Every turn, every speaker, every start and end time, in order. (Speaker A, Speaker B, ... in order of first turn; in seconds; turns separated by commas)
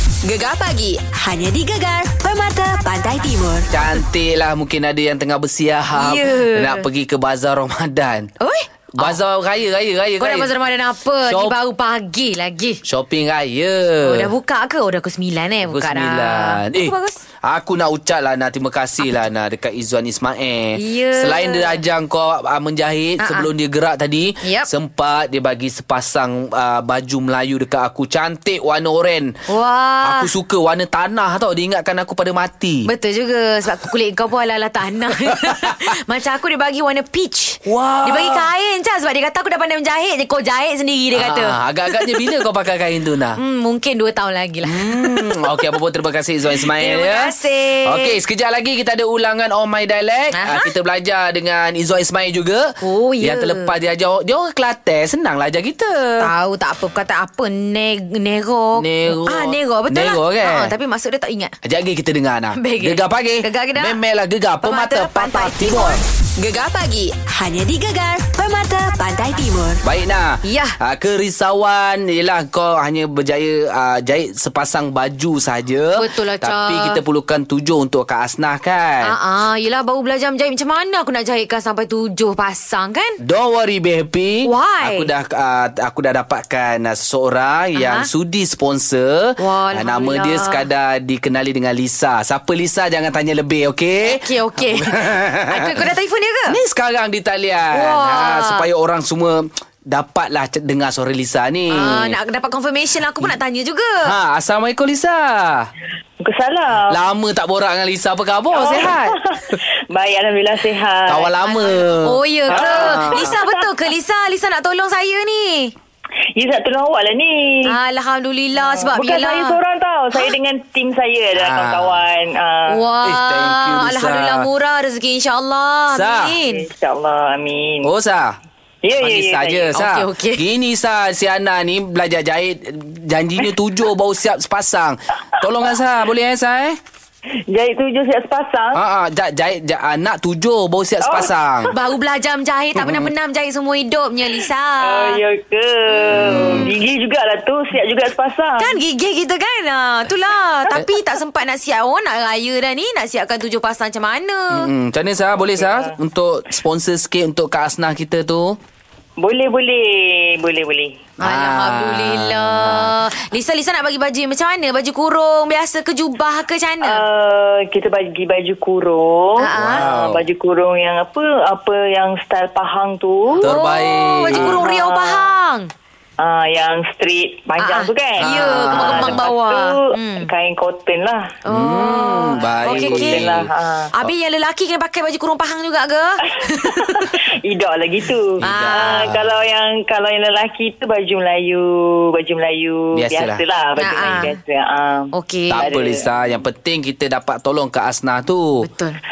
Speaker A: 0.2-3.7, Speaker B: 3.7-8.3, Speaker C: 6.0-6.8, Speaker C: 8.4-9.2, Speaker B: 9.0-10.5, Speaker C: 10.2-12.8, Speaker B: 11.3-11.5, Speaker B: 12.8-14.3, Speaker C: 14.0-17.2, Speaker B: 15.7-16.9, Speaker B: 17.5-29.4, Speaker C: 20.8-21.8, Speaker C: 23.2-23.5, Speaker C: 24.4-24.7, Speaker C: 29.5-30.3, Speaker B: 30.0-32.9, Speaker C: 32.9-42.2, Speaker B: 35.5-35.7, Speaker B: 37.7-38.5, Speaker B: 41.1-43.4, Speaker C: 43.4-45.6, Speaker B: 44.6-56.3, Speaker C: 46.6-48.2, Speaker C: 50.3-50.7, Speaker C: 52.8-53.7, Speaker C: 56.2-61.5, Speaker B: 58.8-60.7, Speaker B: 61.6-66.0, Speaker C: 62.6-64.0, Speaker C: 64.6-66.0, Speaker A: 66.4-69.8, Speaker B: 69.8-79.1, Speaker C: 70.4-70.8, Speaker C: 76.0-77.0, Speaker C: 79.0-83.2, Speaker B: 83.2-95.8, Speaker C: 84.4-85.1, Speaker C: 87.8-88.1, Speaker C: 89.4-90.6, Speaker C: 94.0-96.6, Speaker B: 96.5-102.2, Speaker C: 97.7-98.7, Speaker C: 101.7-104.1, Speaker B: 104.0-105.7, Speaker D: 106.2-107.0, Speaker B: 106.9-109.6, Speaker D: 108.5-111.7, Speaker B: 111.1-113.3, Speaker C: 111.5-115.7, Speaker D: 112.5-113.6, Speaker D: 116.4-117.8, Speaker C: 117.7-119.6, Speaker D: 118.6-122.8, Speaker B: 121.4-122.0, Speaker C: 122.7-126.7, Speaker B: 123.0-124.5, Speaker B: 125.9-126.3, Speaker D: 126.5-127.9, Speaker B: 127.8-128.4, Speaker D: 128.8-129.8, Speaker B: 128.9-136.8, Speaker C: 129.7-130.4, Speaker D: 137.5-138.8, Speaker B: 138.8-141.7, Speaker D: 141.0-141.8, Speaker C: 141.7-145.2, Speaker B: 142.8-143.1, Speaker D: 144.8-148.8, Speaker B: 146.1-146.7, Speaker C: 146.3-146.7, Speaker C: 148.6-154.7, Speaker B: 154.5-158.6, Speaker D: 155.6-155.9, Speaker D: 159.2-161.1, Speaker C: 161.2-167.0, Speaker B: 161.2-162.9, Speaker D: 166.8-173.6, Speaker C: 169.4-169.9, Speaker B: 169.6-170.2, Speaker C: 173.4-175.7, Speaker B: 173.4-174.6, Speaker D: 174.3-175.3, Speaker D: 176.2-181.4, Speaker C: 177.6-180.3, Speaker B: 178.2-179.2, Speaker C: 181.4-183.3, Speaker B: 181.5-183.5, Speaker D: 182.2-183.9, Speaker C: 183.9-187.1, Speaker D: 186.4-196.1, Speaker B: 188.4-189.3, Speaker C: 188.4-189.1, Speaker B: 192.9-193.4, Speaker C: 193.8-194.4, Speaker B: 194.0-194.3, Speaker C: 195.1-195.7, Speaker B: 195.5-198.7, Speaker C: 198.6-199.0